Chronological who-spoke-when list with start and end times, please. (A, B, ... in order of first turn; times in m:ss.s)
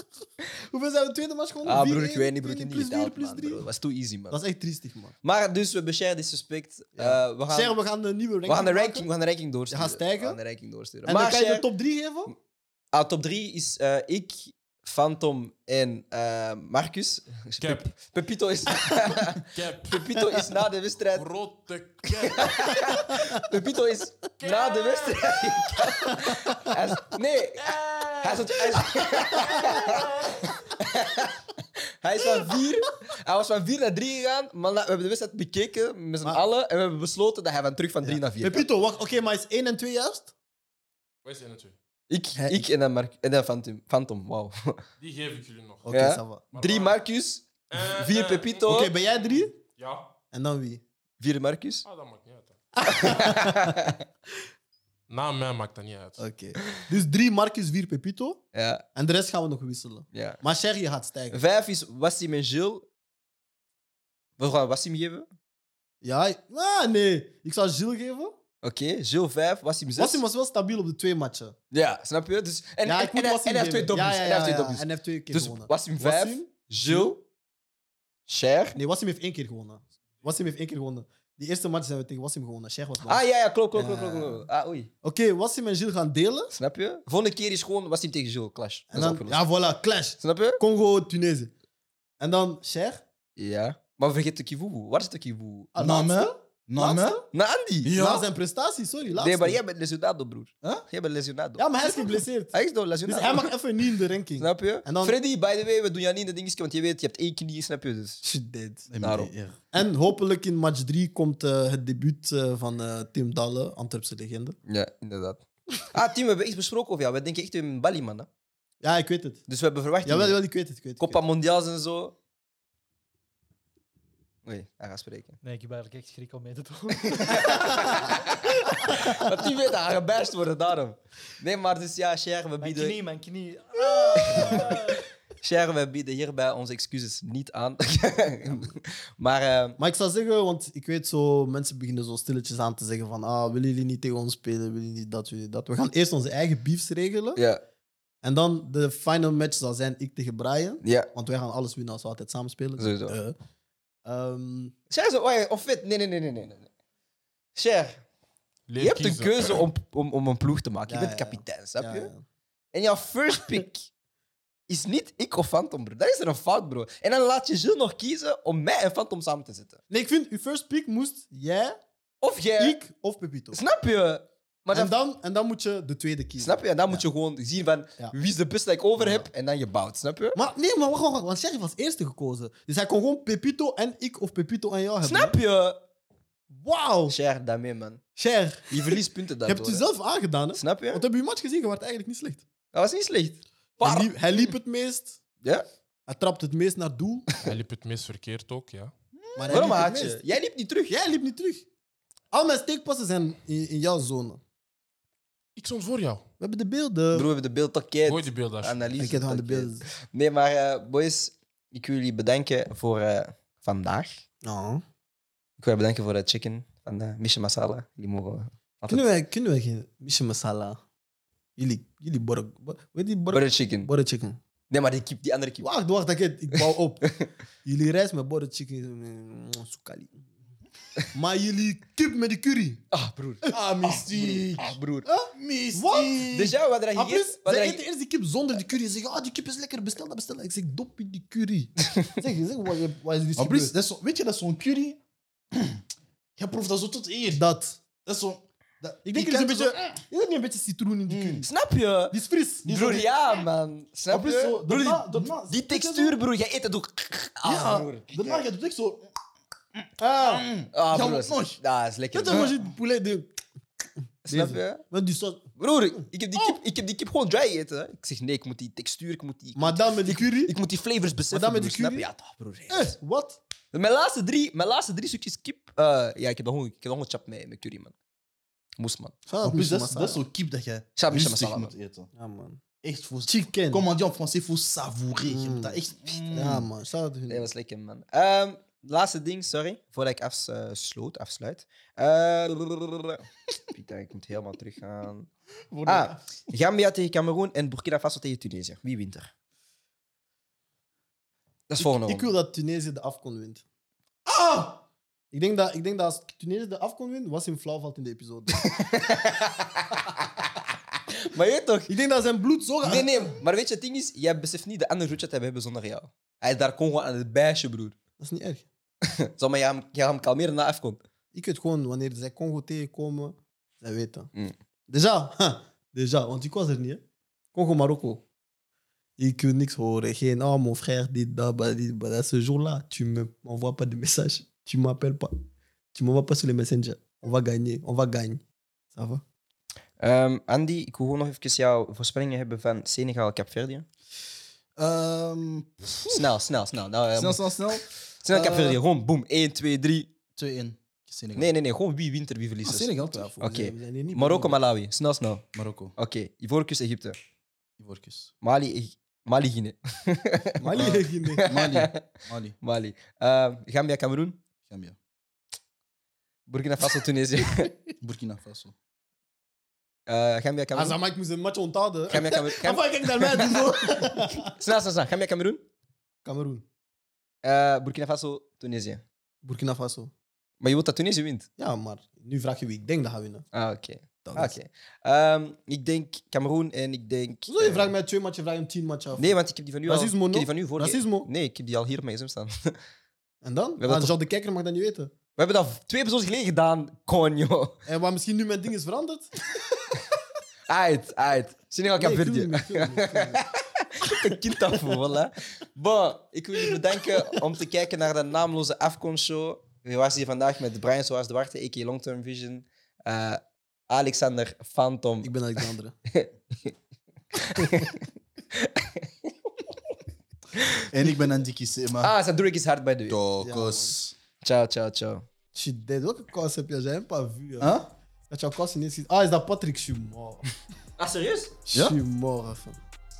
0:00.6-0:03.6 A
0:01.6-0:04.4 B
0:04.3-0:05.1 A
0:05.2-0:07.8 B
0:07.0-0:09.1 A
0:08.5-0:11.6 B
0:09.7-0:10.4 A
0:11.0-0:12.3 A
0:12.9-0:21.3 B
0:17.6-0:17.9 C
0:19.2-0:20.5 C
0:21.1-0:23.2 C
0:22.2-0:31.5 B
0:24.4-0:26.5 C
0:27.6-0:30.4 C
0:29.5-0:29.9 A
0:32.0-0:38.7 B
0:38.0-0:40.3 A
0:41.2-0:41.7 C
0:42.1-0:44.8 B
0:45.0-0:46.0 C
0:45.8-0:46.4 A
0:45.9-0:48.9 B
0:46.5-0:47.0 C
0:47.7-0:50.1 C
0:48.6-0:49.5 A
0:50.3-0:50.8 A
0:51.2-0:51.8 B
0:51.8-0:52.6 C
0:52.8-0:53.8 A
0:52.8-0:54.0 B
0:55.1-0:56.2 C
0:56.2-0:58.4 A
0:58.5-0:58.8 B
0:58.9-1:01.4 A
1:00.1-1:00.4 B
1:01.3-1:02.8 B
1:04.4-1:05.3 B
1:06.0-1:08.4 A
1:08.6-1:10.2 B
1:10.0-1:11.6 A
1:11.7-1:17.2 B
1:12.8-1:17.2 A
1:18.3-1:18.8 B
1:18.8-1:24.4 A
1:23.0-1:24.9 B
1:25.0-1:26.5 A
1:26.5-1:29.4 B
1:28.9-1:31.5 A
1:30.2-1:30.6 B
1:32.2-1:33.0 A
1:33.4-1:35.7 B
1:35.7-1:37.2 A
1:35.8-1:37.2 D
1:37.3-1:38.0 B
1:37.8-1:38.3 D
1:37.9-1:39.6 A
1:39.1-1:43.5 B
1:41.6-1:45.2 A
1:44.4-1:48.2 B
1:48.2-1:48.9 A
1:48.9-1:49.6 D
1:49.0-1:49.3 B
1:49.7-1:54.6 A
1:54.7-1:58.3 B
1:58.8-1:59.4 A
1:59.5-2:00.4 B
2:00.0-2:01.2 A
2:01.0-2:02.1 B
2:04.4-2:05.4 B
2:05.4-2:08.1 E
2:07.0-2:13.0 B
2:12.6-2:15.0 E
2:14.1-2:19.8 B
2:14.3-2:14.9 A
2:19.8-2:27.4 A
2:27.4-2:27.6 B
2:28.2-2:33.4 A
2:30.8-2:31.1 B
2:32.8-2:33.2 B
2:34.0-2:34.7 A
2:34.9-2:36.7 B
2:37.5-2:38.0 B
2:38.7-2:39.7 C
2:38.8-2:42.1 B
2:40.9-2:42.2 A
2:42.7-2:43.9 B
2:44.7-2:49.8 B
2:49.9-2:51.8 A
2:52.2-2:52.8 B
2:52.6-2:53.6 A
2:53.5-2:54.9 B
2:54.7-2:57.0 A
2:56.4-3:00.4 B
2:59.0-2:59.3 A
3:00.3-3:05.3 A
3:05.0-3:05.8 B
3:06.5-3:07.2 A
3:07.1-3:08.0 B
3:08.2-3:12.4 A
3:08.7-3:09.8 B
3:10.6-3:11.0 B
3:12.7-3:14.5 B
3:13.8-3:15.2 A
3:16.1-3:17.4 A
3:17.4-3:18.9 C
3:19.3-3:20.2 A
3:19.5-3:21.0 B
3:20.9-3:21.6 A
3:22.3-3:24.4 A
3:25.6-3:26.2 C
3:26.4-3:27.3 A
3:27.1-3:34.2 B
3:28.0-3:29.1 C
3:29.0-3:29.8 A
3:34.4-3:34.8 A
3:35.6-3:39.1 B
3:38.9-3:40.8 A
3:41.6-3:44.4 A
3:43.3-3:43.9 B
3:44.7-3:45.7 B
3:45.6-3:50.3 A
3:51.1-3:52.8 A
3:52.9-3:53.4 B
3:53.4-3:54.2 A
3:53.5-3:54.8 D
3:54.1-3:55.1 B
3:55.0-4:03.7 A
3:55.3-3:56.3 D
3:56.3-3:57.8 B
4:03.4-4:05.0 D
4:05.5-4:05.8 D
4:06.4-4:07.4 D
4:07.3-4:07.8 A
4:08.0-4:10.0 D
4:09.0-4:11.5 A
4:11.1-4:11.4 D
4:11.4-4:14.8 B
4:12.1-4:13.1 A
4:14.1-4:16.1 D
4:14.6-4:16.0 A
4:15.5-4:18.4 B
4:17.4-4:19.1 D
4:19.8-4:21.6 D
4:20.0-4:20.4 A
4:20.7-4:22.5 B
4:22.1-4:23.3 A
4:24.2-4:24.8 B
4:24.3-4:26.6 A
4:25.6-4:33.0 B
4:29.6-4:30.5 A
4:31.3-4:32.1 A
4:32.7-4:33.4 A
4:33.7-4:37.9 B
4:38.8-4:39.1 B
4:39.3-4:40.2 A
4:39.4-4:42.1 D
4:41.0-4:41.7 B
4:42.1-4:42.6 A
4:42.8-4:46.7 D
4:43.3-4:43.8 A
4:45.2-4:45.8 A
4:46.3-4:47.5 A
4:47.3-4:55.3 B
4:55.7-4:56.1 A
4:55.8-4:59.3 B
5:01.7-5:02.3 B
5:01.8-5:03.6 A
5:04.2-5:08.8 A
5:08.6-5:10.5 B
5:11.1-5:11.9 B
5:11.9-5:13.4 A
5:12.8-5:18.0 B
5:18.2-5:18.6 A
5:19.0-5:21.0 B
5:21.3-5:24.3 A
5:24.9-5:27.0 A
5:27.5-5:28.2 A
5:29.2-5:35.4 A
5:35.9-5:38.4 A
5:38.9-5:39.2 A
5:40.0-5:43.8 B
5:44.8-5:46.2 D
5:46.1-5:50.1 B
5:47.2-5:48.8 D
5:50.4-5:51.5 D
5:51.3-5:55.4 B
5:52.6-5:53.3 D
5:53.0-5:54.6 A
5:55.5-5:55.9 D
5:56.0-5:57.2 B
5:57.8-5:58.3 D
5:58.4-6:02.0 B
6:00.6-6:01.4 A
6:01.4-6:02.6 D
6:02.6-6:04.4 B
6:04.7-6:05.0 D
6:06.5-6:07.7 B
6:08.0-6:08.7 D
6:10.1-6:11.0 B
6:10.7-6:14.5 A
6:12.1-6:15.6 B
6:16.2-6:16.6 A
6:17.4-6:19.0 B
6:19.4-6:20.1 A
6:20.6-6:21.5 B
6:21.6-6:23.4 A
6:23.5-6:27.9 B
6:24.2-6:24.5 A
6:27.5-6:31.3 A
6:29.2-6:32.8 B
6:33.4-6:35.1 A
6:33.8-6:34.1 B
6:35.4-6:37.8 B
6:37.8-6:39.3 A
6:40.7-6:55.6 B
6:42.0-6:43.4 A
6:46.7-6:47.2 A
6:55.2-6:55.9 A
6:56.1-6:56.7 B
6:57.4-6:59.3 B
6:57.6-6:57.8 A
7:00.5-7:00.8 B
7:00.9-7:02.1 D
7:02.0-7:03.2 B
7:03.1-7:04.1 D
7:03.4-7:04.0 A
7:04.4-7:05.2 B
7:05.5-7:07.8 A
7:07.6-7:07.9 D
7:08.3-7:10.4 A
7:11.0-7:11.5 B
7:11.6-7:12.8 A